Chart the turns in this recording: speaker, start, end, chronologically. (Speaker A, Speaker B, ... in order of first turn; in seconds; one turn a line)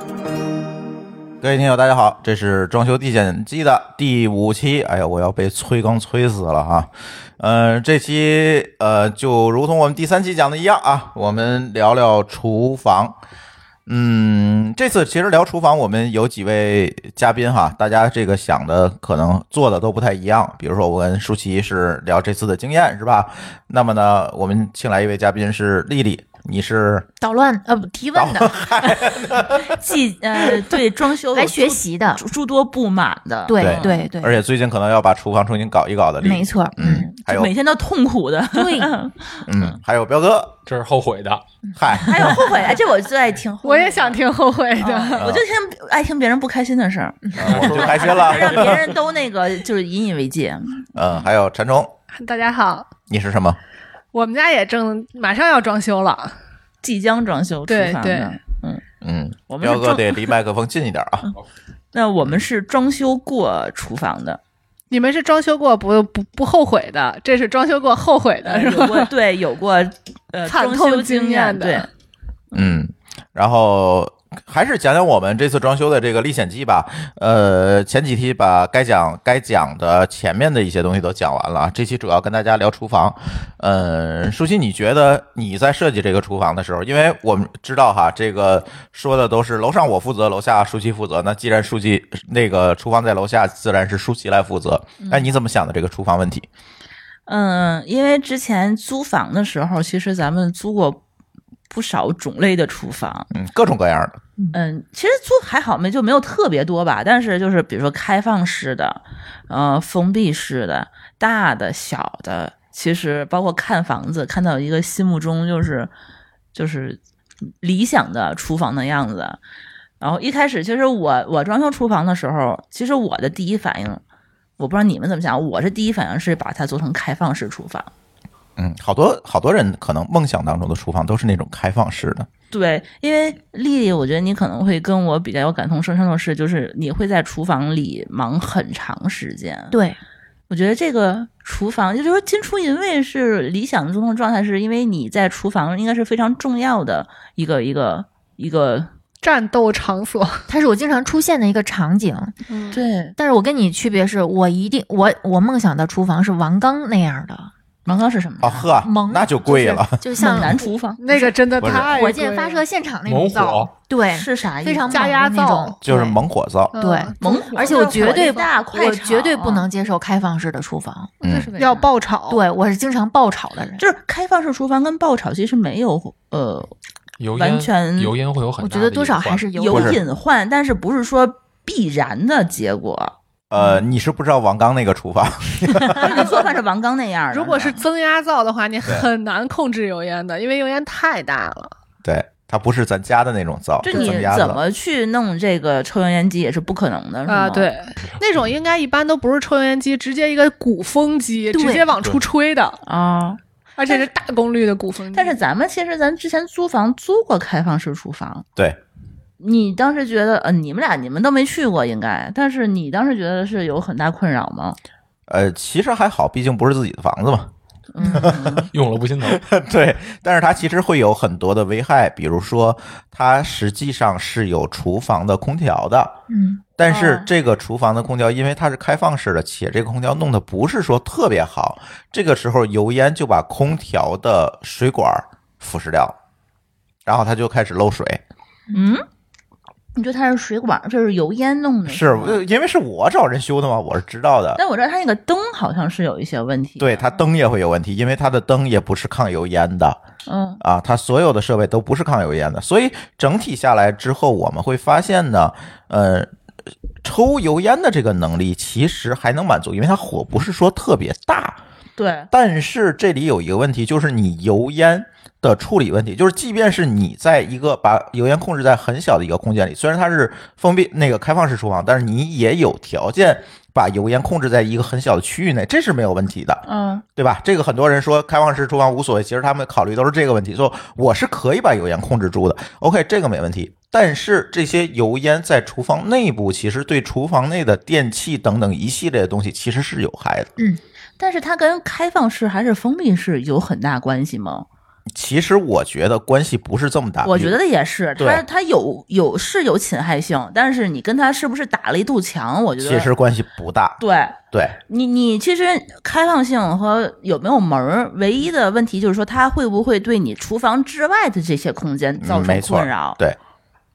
Speaker A: 1.4-13.2
Speaker A: 13.9-27.1
Speaker B: 27.2-28.6
Speaker A: 28.1-29.8
Speaker C: 29.6-34.1
Speaker B: 31.3-32.2
Speaker B: 33.5-34.4
Speaker A: 33.6-37.5
Speaker B: 36.2-37.1
Speaker C: 37.2-39.7
Speaker B: 38.5-38.9
Speaker A: 39.4-40.5
Speaker D: 40.6-41.4
Speaker A: 41.8-42.4
Speaker C: 41.9-44.2
Speaker E: 43.6-45.3
Speaker C: 44.8-50.8
Speaker A: 45.2-45.4
Speaker A: 47.4-48.9
Speaker D: 47.5-48.0
Speaker A: 50.9-51.9
Speaker E: 52.1-52.9
Speaker A: 53.1-53.6
Speaker E: 54.1-56.3
Speaker C: 56.8-58.8
Speaker E: 57.7-58.3
Speaker A: 59.0-61.3
Speaker C: 59.5-60.3
Speaker C: 61.9-64.4
Speaker E: 64.9-69.1
Speaker C: 68.4-71.9
Speaker E: 70.5-71.9
Speaker C: 72.5-72.8
Speaker A: 72.5-96.5
Speaker C: 95.0-95.3
Speaker C: 97.3-101.0
Speaker C: 101.7-103.3
Speaker A: 103.3-104.2
Speaker C: 104.5-115.9
Speaker C: 116.5-117.0
Speaker C: 117.6-119.4
Speaker C: 120.0-124.0
Speaker C: 124.6-127.9
Speaker A: 128.6-132.3
Speaker C: 132.5-139.7
Speaker B: 139.7-140.0
Speaker C: 140.5-148.9
Speaker E: 149.2-150.4
Speaker B: 150.5-152.3
Speaker E: 152.5-152.8
Speaker C: 152.7-153.2
Speaker B: 153.2-157.5
Speaker C: 157.8-158.7
Speaker A: 158.4-160.0
Speaker B: 158.6-166.2
Speaker C: 160.2-161.2
Speaker E: 160.2-162.6
Speaker A: 161.6-161.9
Speaker C: 161.9-162.3
Speaker D: 163.1-163.7
Speaker C: 164.1-165.2
Speaker E: 164.9-165.8
Speaker A: 165.8-166.8
Speaker E: 166.7-168.4
Speaker B: 166.7-171.1
Speaker C: 167.2-169.7
Speaker A: 171.2-171.5
Speaker E: 171.2-172.4
Speaker C: 171.5-171.9
Speaker B: 172.3-173.8
Speaker C: 173.8-176.7
Speaker D: 177.2-179.9
Speaker C: 177.3-178.1
Speaker B: 178.6-180.0
Speaker C: 179.5-183.1
Speaker A: 179.7-179.9
Speaker A: 183.5-186.3
Speaker B: 183.6-183.8
Speaker C: 185.8-187.8
Speaker E: 187.3-191.7
Speaker A: 192.0-194.6
Speaker C: 193.8-197.7
Speaker E: 193.9-194.3
Speaker E: 197.2-202.8
Speaker B: 201.5-201.9
Speaker C: 202.8-204.1
Speaker E: 203.8-205.3
Speaker C: 205.1-208.5
Speaker C: 209.4-214.8
Speaker A: 215.3-217.5
Speaker C: 217.9-218.7
Speaker B: 218.0-218.3
Speaker A: 218.1-218.7
Speaker D: 218.7-219.4
Speaker A: 219.2-226.2
Speaker B: 226.3-226.6
Speaker A: 226.8-236.2
Speaker C: 226.8-227.3
Speaker A: 237.0-238.2
Speaker C: 238.7-239.0
Speaker C: 239.9-242.4
Speaker A: 241.8-244.6
Speaker C: 244.6-247.1
Speaker A: 246.8-250.0
Speaker C: 250.2-250.6
Speaker A: 250.6-256.3
Speaker A: 257.0-261.6
Speaker C: 262.0-262.3
Speaker A: 262.3-276.6
Speaker C: 276.6-277.0
Speaker A: 277.1-290.5
Speaker C: 291.2-294.6
Speaker A: 295.1-297.6
Speaker C: 297.2-303.1
Speaker A: 298.2-298.4
Speaker A: 302.8-304.8
Speaker C: 304.0-313.2
Speaker A: 312.2-313.4